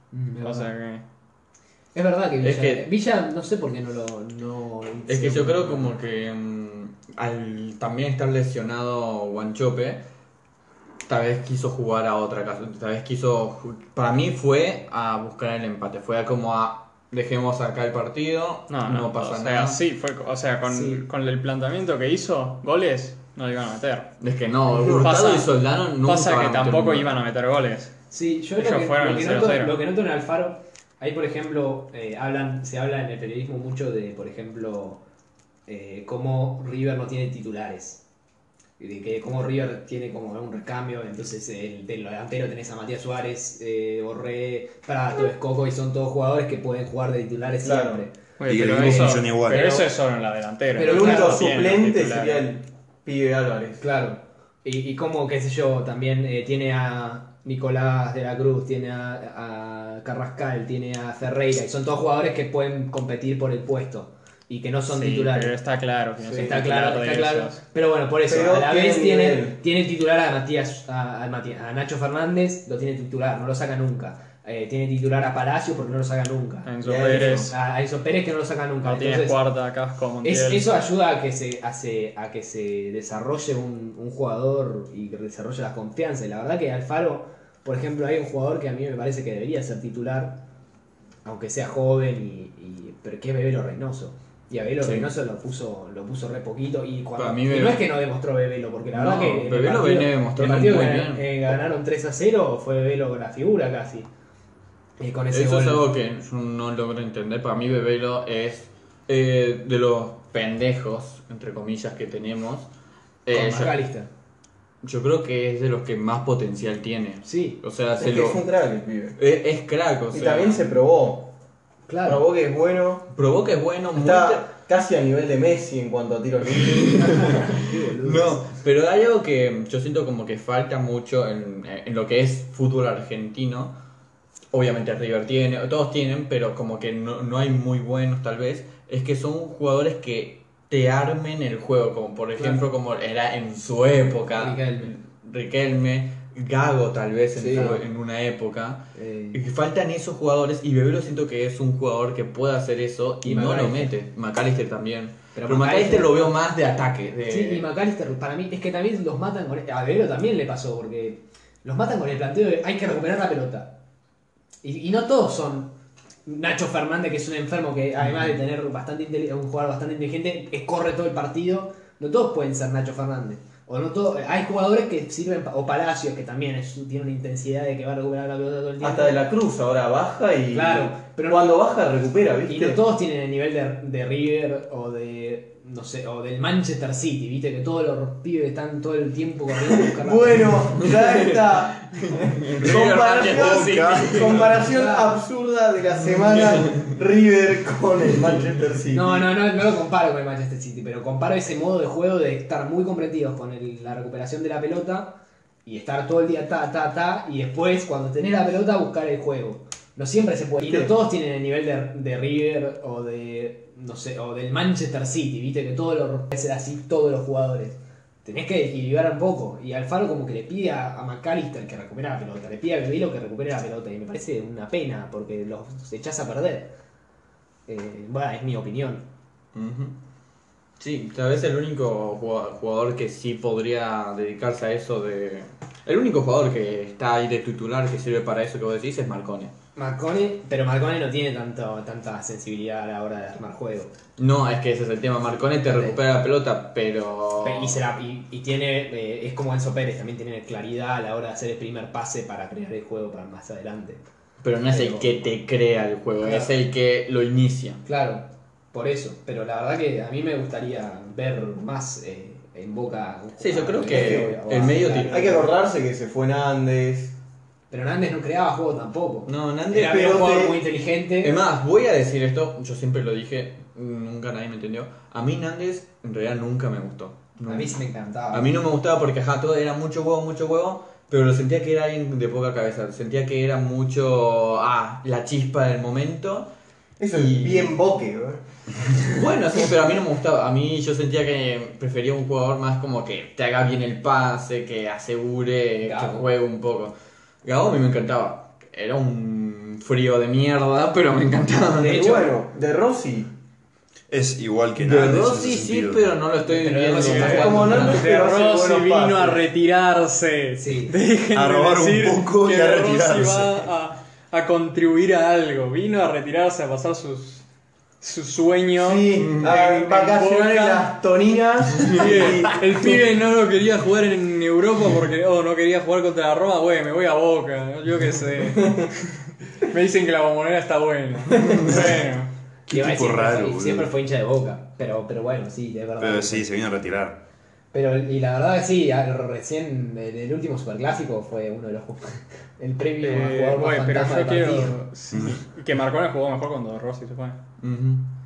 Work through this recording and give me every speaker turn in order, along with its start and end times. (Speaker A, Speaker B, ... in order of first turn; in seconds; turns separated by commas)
Speaker A: 0.1-0.7, Speaker B: 0.4-1.0, Speaker A: 1.9-6.0, Speaker C: 2.4-2.9, Speaker C: 5.1-10.0, Speaker C: 11.1-19.8, Speaker B: 18.7-24.1, Speaker A: 20.7-21.1, Speaker C: 24.2-27.2, Speaker B: 24.8-27.9, Speaker A: 28.1-35.0, Speaker B: 28.6-29.8, Speaker A: 35.7-38.0, Speaker A: 38.8-49.9, Speaker D: 47.6-48.0, Speaker B: 48.4-52.5, Speaker E: 48.5-49.7, Speaker D: 50.7-53.9, Speaker A: 50.8-51.5, Speaker A: 53.8-65.5, Speaker B: 64.9-67.6, Speaker D: 66.2-66.6, Speaker A: 66.3-79.4, Speaker D: 68.3-69.6, Speaker B: 76.7-77.5, Speaker D: 76.8-77.5, Speaker B: 78.8-80.7, Speaker A: 80.2-90.4, Speaker A: 91.2-104.1, Speaker C: 94.8-95.1, Speaker C: 97.2-97.9, Speaker C: 98.9-101.5, Speaker A: 105.0-105.9, Speaker C: 105.3-112.7, Speaker C: 113.2-113.8, Speaker A: 113.3-114.1, Speaker C: 114.8-118.4, Speaker A: 117.2-117.6, Speaker D: 118.0-119.2, Speaker C: 119.2-120.7, Speaker D: 120.1-121.3, Speaker A: 121.9-122.2, Speaker D: 122.0-123.1, Speaker C: 123.1-124.5, Speaker D: 124.0-127.0, Speaker C: 126.5-133.8, Speaker A: 127.0-128.5, Speaker C: 134.5-157.7, Speaker A: 142.4-142.6, Speaker A: 144.3-144.9, Speaker D: 147.4-147.8, Speaker A: 148.9-149.4, Speaker A: 153.2-153.9, Speaker A: 155.3-156.3, Speaker A: 157.3-163.7, Speaker A: 164.6-165.7, Speaker A: 166.3-179.2, Speaker D: 178.8-182.8, Speaker A: 180.5-181.6, Speaker A: 182.5-190.8, Speaker D: 189.9-199.2, Speaker C: 190.8-194.6, Speaker E: 192.6-194.3, Speaker A: 194.5-195.2, Speaker A: 198.9-226.8, Speaker D: 210.6-210.9, Speaker A: 227.7-229.1, Speaker C: 229.6-229.9, Speaker C: 230.8-239.5, Speaker A: 239.8-243.9, Speaker C: 244.2-247.8, Speaker A: 245.7-246.0, Speaker A: 247.4-254.0, Speaker C: 254.4-257.8, Speaker A: 254.7-255.3, Speaker A: 256.2-256.6, Speaker A: 257.9-265.5, Speaker C: 263.4-265.4, Speaker D: 263.8-267.1, Speaker A: 267.7-271.4, Speaker C: 269.3-270.1, Speaker D: 269.8-270.6, Speaker C: 271.2-277.8, Speaker A: 277.5-278.6, Speaker C: 278.3-286.5, Speaker D: 287.0-288.4, Speaker C: 287.1-287.7, Speaker C: 289.1-302.2, Speaker A: 295.8-296.2, Speaker A: 301.8-302.4, Speaker D: 301.8-303.3, Speaker E: 304.1-306.1, Speaker C: 304.8-308.2, Speaker A: 306.5-307.8, Speaker B: 306.9-317.5, Speaker D: 307.1-309.4, Speaker A: 310.6-311.0, Speaker E: 311.3-313.7, Speaker B: 318.0-320.9, Speaker D: 318.8-323.0, Speaker C: 319.2-319.6, Speaker C: 321.8-322.3, Speaker B: 321.9-329.0, Speaker B: 329.6-332.3, Speaker E: 332.7-333.9, Speaker A: 332.7-336.5, Speaker E: 336.0-337.2, Speaker A: 337.7-344.8, Speaker B: 343.0-347.4, Speaker C: 347.6-348.1